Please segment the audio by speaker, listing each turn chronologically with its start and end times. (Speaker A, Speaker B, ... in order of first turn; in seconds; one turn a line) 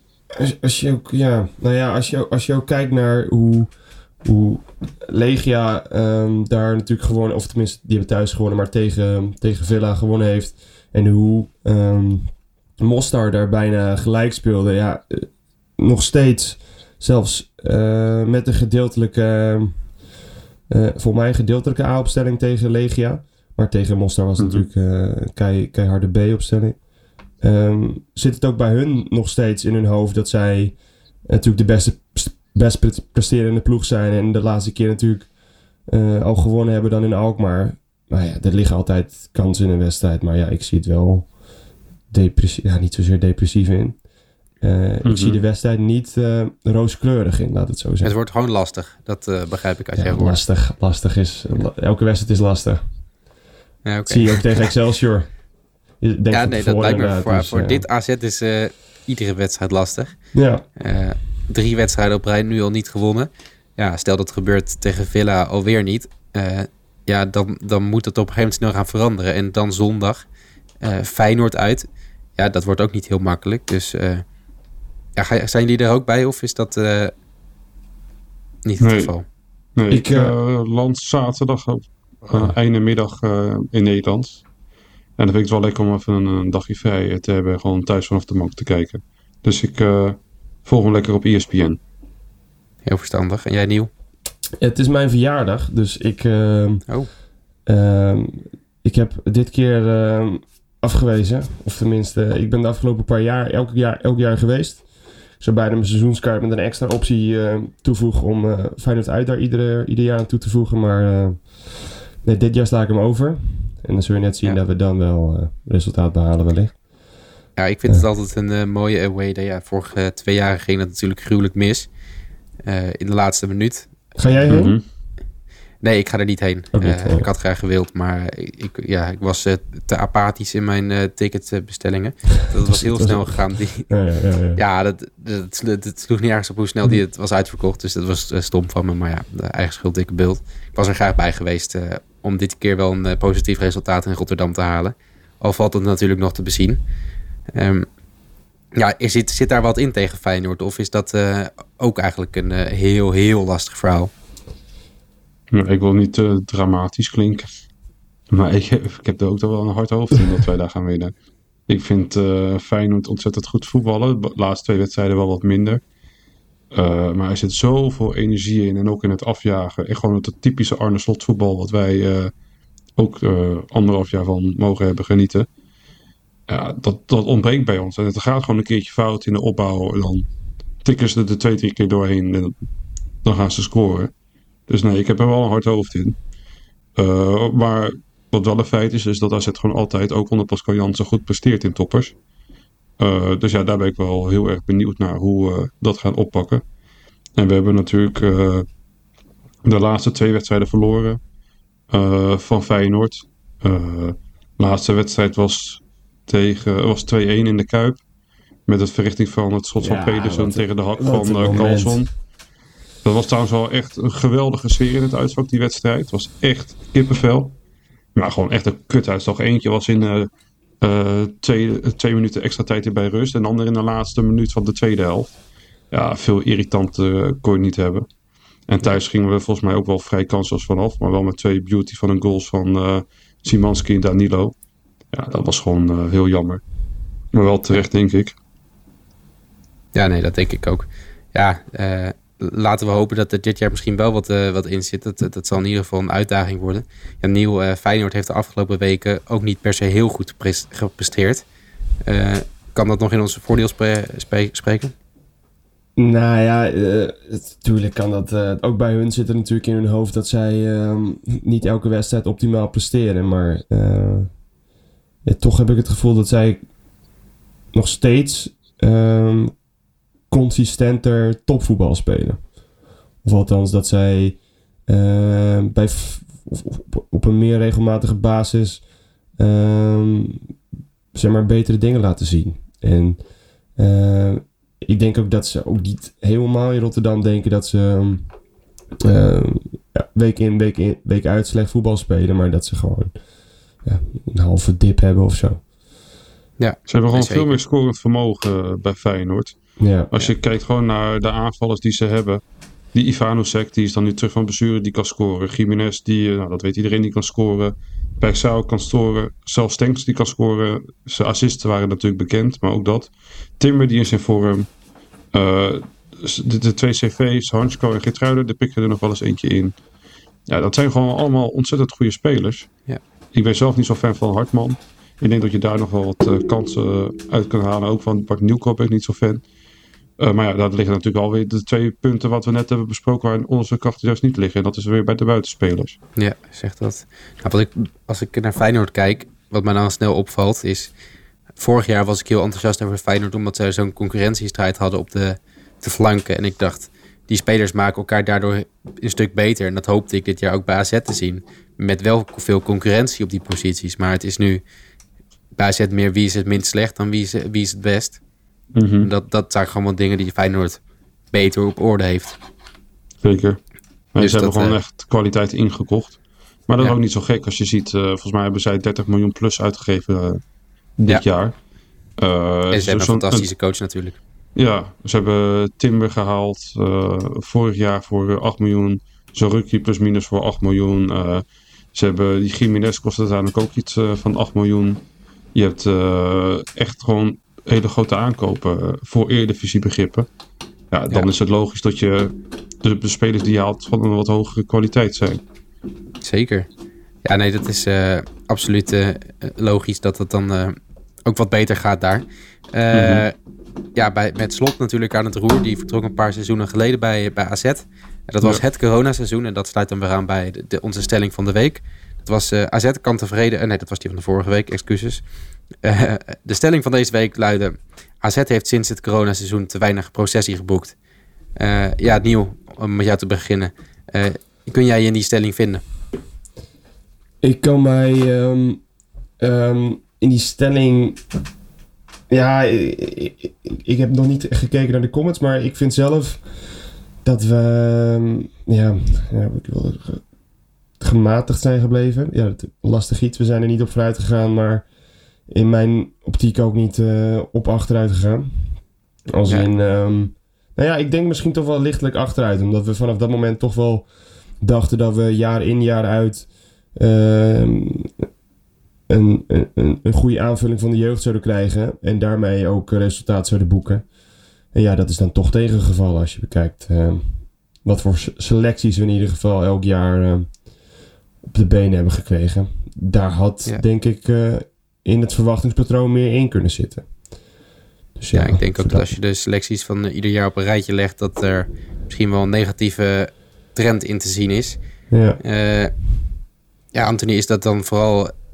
Speaker A: 0.3-15.3
Speaker A: 15.8-19.9
Speaker A: 20.7-26.8
Speaker B: 24.4-24.7
Speaker A: 27.4-35.3
Speaker A: 35.9-41.3
Speaker A: 42.1-44.0
Speaker A: 44.6-48.1
Speaker B: 45.0-45.4
Speaker C: 48.0-50.4
Speaker A: 50.0-52.8
Speaker C: 53.9-54.7
Speaker A: 54.1-55.3
Speaker A: 56.0-57.9
Speaker C: 56.3-60.2
Speaker A: 60.3-60.6
Speaker C: 60.8-70.3
Speaker C: 70.8-74.2
Speaker C: 75.2-77.1
Speaker C: 78.7-79.2
Speaker B: 78.8-79.1
Speaker B: 79.8-84.4
Speaker A: 79.9-80.3
Speaker B: 85.2-91.8
Speaker C: 92.8-93.9
Speaker A: 94.6-96.9
Speaker A: 97.7-116.8
Speaker C: 117.6-121.9
Speaker C: 122.7-124.6
Speaker A: 124.2-124.8
Speaker B: 124.5-124.8
Speaker C: 125.8-133.9
Speaker A: 126.7-127.3
Speaker A: 132.6-134.6
Speaker C: 134.6-146.8
Speaker C: 147.5-147.9
Speaker C: 148.8-154.1
Speaker B: 155.5-157.5
Speaker B: 158.3-161.1
Speaker B: 161.7-165.8
Speaker B: 166.7-172.3
Speaker B: 173.0-175.5
Speaker B: 176.5-180.3
Speaker B: 180.8-182.7
Speaker B: 183.2-184.1
Speaker B: 184.7-186.2
Speaker B: 187.0-192.2
Speaker B: 193.0-196.6
Speaker B: 197.4-198.7
Speaker B: 199.6-201.2
Speaker B: 201.9-208.0
Speaker B: 208.7-212.1
Speaker A: 209.8-212.0
Speaker B: 213.0-217.6
Speaker B: 218.2-220.3
Speaker B: 220.8-225.3
Speaker B: 225.9-228.1
Speaker B: 228.7-234.6
Speaker B: 235.1-236.6
Speaker B: 237.3-238.4
Speaker C: 239.9-251.4
Speaker C: 252.0-254.9
Speaker A: 256.0-264.3
Speaker A: 265.2-266.6
Speaker A: 267.7-269.6
Speaker A: 270.3-272.5
Speaker A: 273.2-278.9
Speaker A: 279.4-280.4
Speaker A: 281.1-283.2
Speaker A: 283.8-288.3
Speaker A: 289.0-293.2
Speaker A: 293.8-295.6
Speaker C: 296.6-297.6
Speaker B: 296.9-299.6
Speaker A: 299.8-300.1
Speaker B: 300.1-302.4
Speaker B: 302.9-314.7
Speaker B: 315.3-319.7
Speaker B: 320.5-322.7
Speaker B: 323.3-329.4
Speaker B: 330.2-336.0
Speaker C: 336.2-340.9
Speaker C: 341.6-354.6
Speaker C: 355.6-358.2
Speaker B: 358.8-359.1
Speaker C: 359.0-360.8
Speaker C: 361.3-362.4
Speaker B: 363.2-363.6
Speaker B: 364.1-370.4
Speaker C: 364.2-364.8
Speaker B: 371.0-371.6
Speaker B: 372.2-373.5
Speaker C: 372.7-374.2
Speaker B: 374.6-385.0
Speaker B: 385.6-390.3
Speaker B: 390.9-395.4
Speaker C: 396.2-396.7
Speaker C: 397.2-403.3
Speaker B: 402.9-403.2
Speaker C: 403.9-415.2
Speaker C: 415.8-421.0
Speaker C: 421.6-425.8
Speaker A: 427.4-428.8
Speaker A: 429.4-431.2
Speaker A: 432.3-436.7
Speaker A: 437.2-440.2
Speaker A: 441.0-444.9
Speaker A: 445.5-448.8
Speaker A: 449.3-458.2
Speaker A: 459.1-464.1
Speaker A: 464.7-470.6
Speaker A: 471.4-477.1
Speaker A: 478.2-479.1
Speaker C: 478.3-484.8
Speaker A: 485.1-485.4
Speaker C: 485.4-485.9
Speaker C: 486.9-488.3